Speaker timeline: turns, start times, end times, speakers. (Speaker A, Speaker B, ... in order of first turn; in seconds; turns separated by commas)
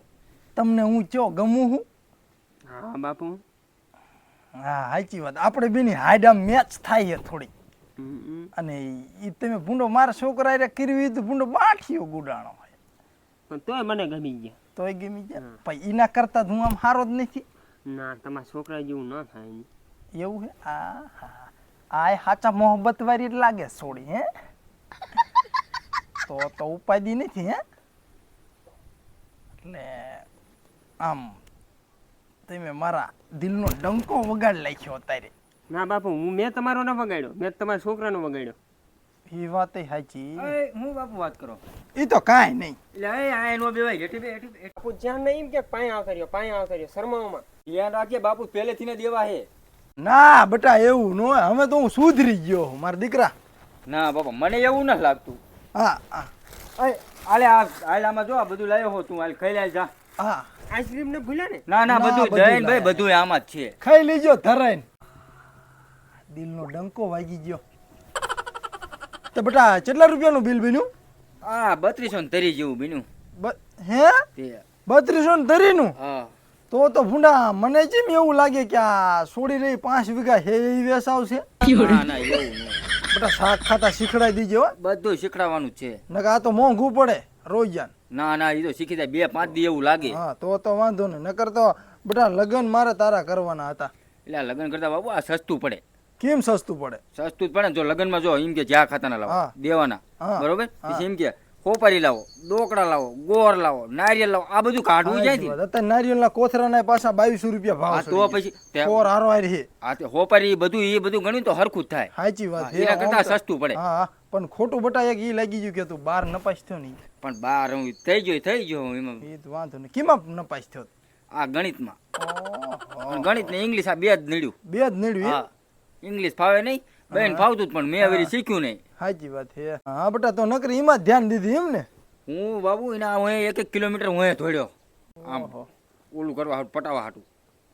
Speaker A: 0.6-1.8, Speaker B: 2.7-3.4, Speaker A: 4.6-7.5, Speaker B: 8.0-8.5, Speaker A: 8.5-12.7, Speaker B: 13.5-14.6, Speaker A: 14.8-17.4, Speaker B: 17.9-19.7, Speaker A: 20.1-24.3, Speaker A: 26.2-27.6, Speaker A: 29.6-30.2, Speaker A: 31.0-31.4, Speaker A: 32.5-35.3, Speaker B: 35.7-38.5, Speaker A: 39.3-40.5, Speaker C: 40.4-41.6, Speaker A: 41.9-42.8, Speaker C: 42.9-44.7, Speaker B: 44.8-47.5, Speaker C: 47.7-49.5, Speaker A: 50.0-53.3, Speaker C: 53.9-55.4, Speaker A: 55.7-56.3, Speaker C: 56.8-59.9, Speaker A: 60.2-60.5, Speaker B: 60.7-61.6, Speaker C: 61.7-63.7, Speaker A: 61.9-63.0, Speaker A: 63.8-64.8, Speaker A: 66.3-67.6, Speaker A: 69.3-70.9, Speaker C: 71.4-73.0, Speaker A: 73.4-74.2, Speaker C: 74.4-74.6, Speaker A: 74.8-76.0, Speaker C: 76.0-76.3, Speaker A: 76.7-81.4, Speaker C: 81.6-83.0, Speaker A: 83.1-84.7, Speaker C: 84.8-86.0, Speaker A: 86.1-87.9, Speaker C: 88.1-90.2, Speaker A: 90.0-93.9, Speaker C: 94.2-95.8, Speaker A: 96.2-97.0, Speaker C: 97.1-105.5, Speaker A: 99.3-99.5, Speaker A: 100.2-101.0, Speaker A: 105.0-109.7, Speaker C: 107.9-109.1, Speaker C: 109.8-113.8, Speaker A: 112.1-117.0, Speaker C: 117.2-119.2, Speaker A: 119.2-120.9, Speaker C: 121.3-122.0, Speaker A: 122.2-123.6, Speaker C: 123.1-124.5, Speaker A: 124.6-125.4, Speaker C: 125.2-125.5, Speaker C: 126.0-128.8, Speaker A: 127.1-127.5, Speaker A: 128.0-128.3, Speaker A: 129.0-131.9, Speaker C: 132.3-134.7, Speaker A: 135.2-135.7, Speaker C: 135.2-135.5, Speaker C: 136.1-137.2